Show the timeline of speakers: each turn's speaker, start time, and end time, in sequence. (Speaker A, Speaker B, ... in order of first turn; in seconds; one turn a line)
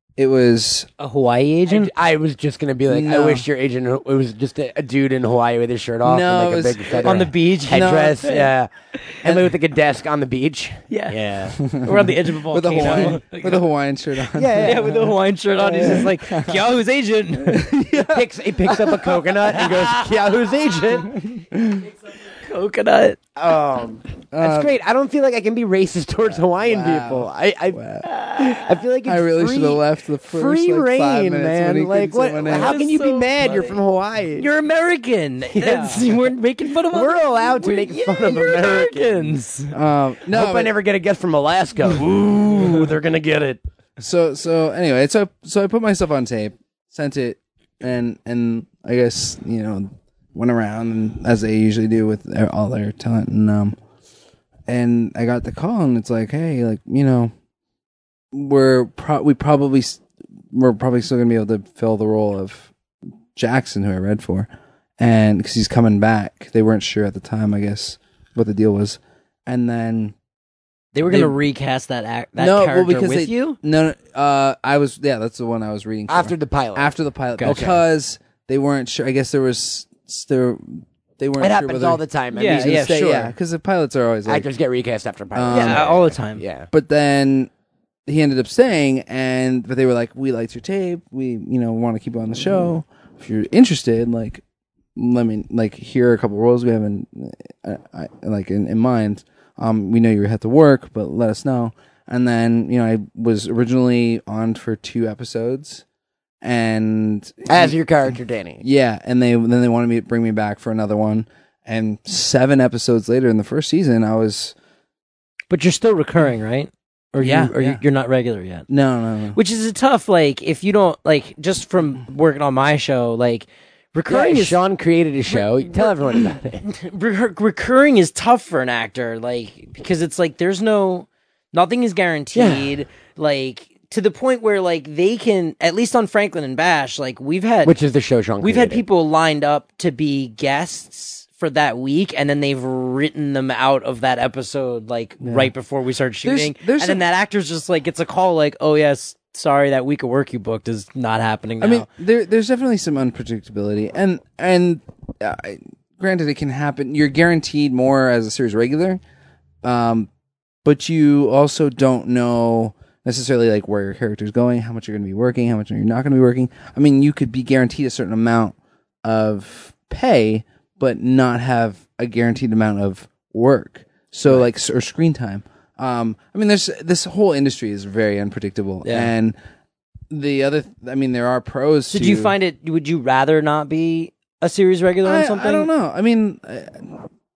Speaker A: 0.2-0.9
Speaker B: 1.0-1.9
Speaker C: 1.7-8.7
Speaker A: 2.9-3.5
Speaker A: 6.0-8.2
Speaker B: 7.0-8.5
Speaker C: 9.2-11.6
Speaker B: 10.9-13.6
Speaker A: 11.6-15.1
Speaker C: 12.8-13.2
Speaker C: 14.3-16.1
Speaker B: 14.6-17.9
Speaker A: 15.8-16.6
Speaker A: 17.5-18.2
Speaker C: 18.1-21.1
Speaker B: 19.5-20.1
Speaker A: 21.1-21.9
Speaker B: 22.4-23.2
Speaker C: 23.4-27.8
Speaker A: 24.3-24.8
Speaker A: 26.2-28.1
Speaker B: 28.0-28.8
Speaker C: 28.4-34.5
Speaker A: 29.1-32.8
Speaker B: 32.5-33.8
Speaker B: 34.4-39.7
Speaker C: 35.5-36.1
Speaker C: 36.9-39.4
Speaker A: 39.7-40.7
Speaker C: 40.3-43.6
Speaker A: 44.0-53.8
Speaker A: 54.7-57.3
Speaker A: 58.3-62.7
Speaker A: 63.4-70.2
Speaker B: 70.9-73.6
Speaker A: 71.1-71.4
Speaker A: 72.4-84.5
Speaker C: 76.1-77.8
Speaker B: 77.4-77.8
Speaker C: 81.4-83.0
Speaker B: 82.3-83.3
Speaker C: 84.3-86.7
Speaker A: 85.3-85.9
Speaker B: 85.5-86.4
Speaker A: 86.7-87.5
Speaker A: 88.1-94.4
Speaker A: 95.0-105.8
Speaker A: 106.4-114.5
Speaker C: 107.5-108.6
Speaker B: 115.5-118.7
Speaker A: 117.2-117.8
Speaker A: 118.7-119.4
Speaker B: 119.3-124.6
Speaker C: 124.1-126.6
Speaker B: 125.4-125.9
Speaker B: 126.7-137.8
Speaker C: 132.3-132.7
Speaker C: 137.6-138.8
Speaker B: 138.4-151.9
Speaker A: 145.2-145.5
Speaker A: 146.2-147.1
Speaker A: 151.6-159.0
Speaker A: 159.6-160.1
Speaker A: 160.6-179.4
Speaker B: 178.8-179.1
Speaker A: 180.1-182.3
Speaker B: 181.9-185.7
Speaker A: 185.0-187.1